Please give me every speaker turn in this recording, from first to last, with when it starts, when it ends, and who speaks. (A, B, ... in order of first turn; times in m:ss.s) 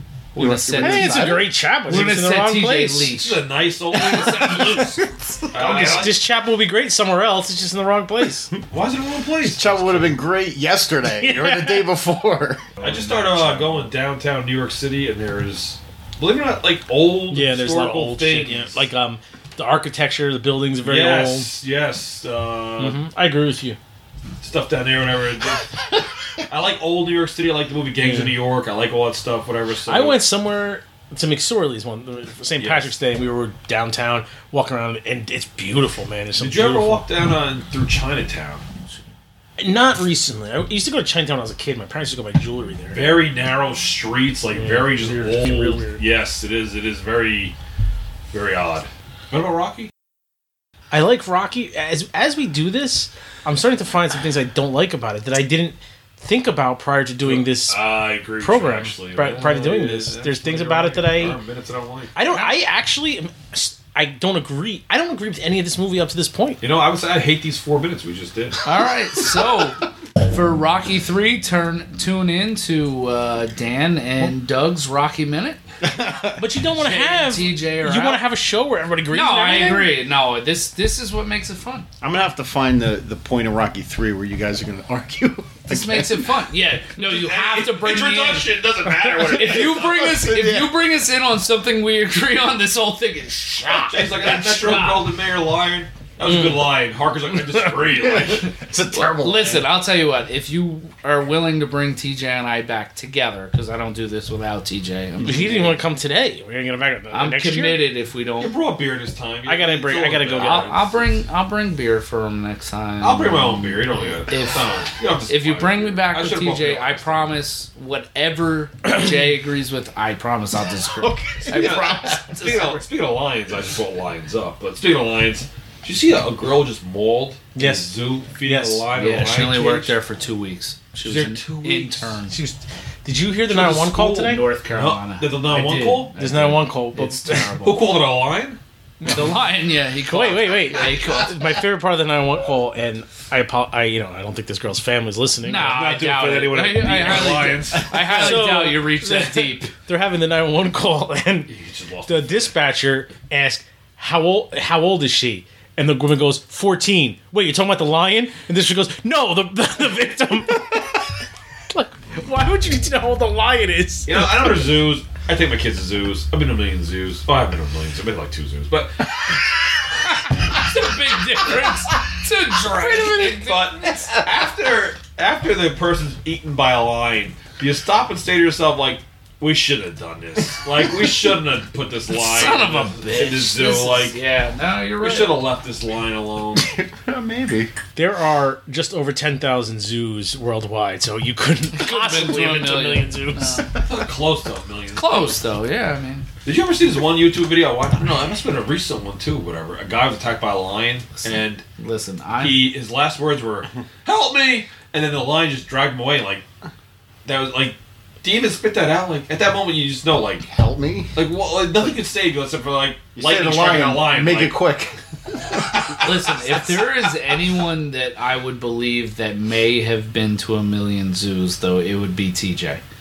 0:00.3-0:03.4 A
0:00.4-0:01.5 B
0:00.5-0:03.2 C
0:03.2-0:04.9 D
0:03.9-0:05.0 A
0:05.5-0:06.2 D
0:05.5-0:08.5 C
0:08.7-0:10.1 D
0:09.4-0:12.6 B
0:11.2-0:11.9 C
0:12.8-0:18.8 D
0:13.0-0:13.5 C
0:17.3-0:21.5 C
0:20.8-0:23.0 D
0:22.8-0:23.8 C
0:24.4-0:25.8 D
0:26.4-0:30.2 D
0:28.0-0:28.4 C
0:29.9-0:37.0 C
0:32.6-0:32.9 D
0:36.4-0:38.6 D
0:39.6-0:43.2 C
0:42.9-0:47.5 D
0:44.5-0:46.0 C
0:48.3-0:49.9 D
0:50.9-1:01.4 C
0:57.2-1:02.2 D
1:02.2-1:06.6 C
1:06.6-1:08.6 D
1:08.6-1:15.6 A
1:15.8-1:16.4 B
1:16.4-1:20.0 C
1:16.8-1:18.2 A
1:19.1-1:21.9 A
1:22.0-1:26.3 B
1:25.7-1:28.5 A
1:27.0-1:29.9 D
1:28.9-1:30.8 B
1:29.2-1:35.1 A
1:33.7-1:38.5 D
1:36.2-1:36.7 C
1:37.9-1:39.7 B
1:38.9-1:45.8 A
1:45.2-1:47.9 C
1:47.1-1:48.5 A
1:48.4-1:51.0 D
1:49.4-1:50.9 C
1:50.4-1:54.7 A
1:53.0-1:57.4 D
1:55.3-2:02.8 A
2:01.0-2:02.2 B
2:01.5-2:09.9 D
2:07.5-2:08.8 C
2:08.9-2:12.4 A
2:11.0-2:12.2 D
2:12.3-2:14.4 C
2:13.5-2:16.1 D
2:14.2-2:17.8 A
2:16.2-2:17.6 C
2:17.6-2:18.6 D
2:19.0-2:19.4 C
2:19.0-2:21.4 A
2:20.0-2:26.0 C
2:25.4-2:29.7 A
2:25.6-2:28.1 D
2:27.9-2:31.5 C
2:31.5-2:32.5 D
2:32.0-2:41.0 C
2:41.7-2:44.7 C
2:44.1-2:49.1 D
2:50.5-2:53.7 A
2:52.7-2:53.4 C
2:52.8-3:04.2 D
3:02.1-3:05.4 A
3:05.0-3:06.7 D
3:06.6-3:07.7 B
3:08.0-3:13.8 C
3:11.7-3:13.7 A
3:13.7-3:15.4 D
3:14.9-3:16.3 A
3:16.4-3:21.6 D
3:21.2-3:22.7 A
3:22.4-3:26.4 D
3:27.2-3:30.5 D
3:30.4-3:31.2 B
3:31.1-3:34.6 D
3:33.2-3:36.2 B
3:36.0-3:42.8 A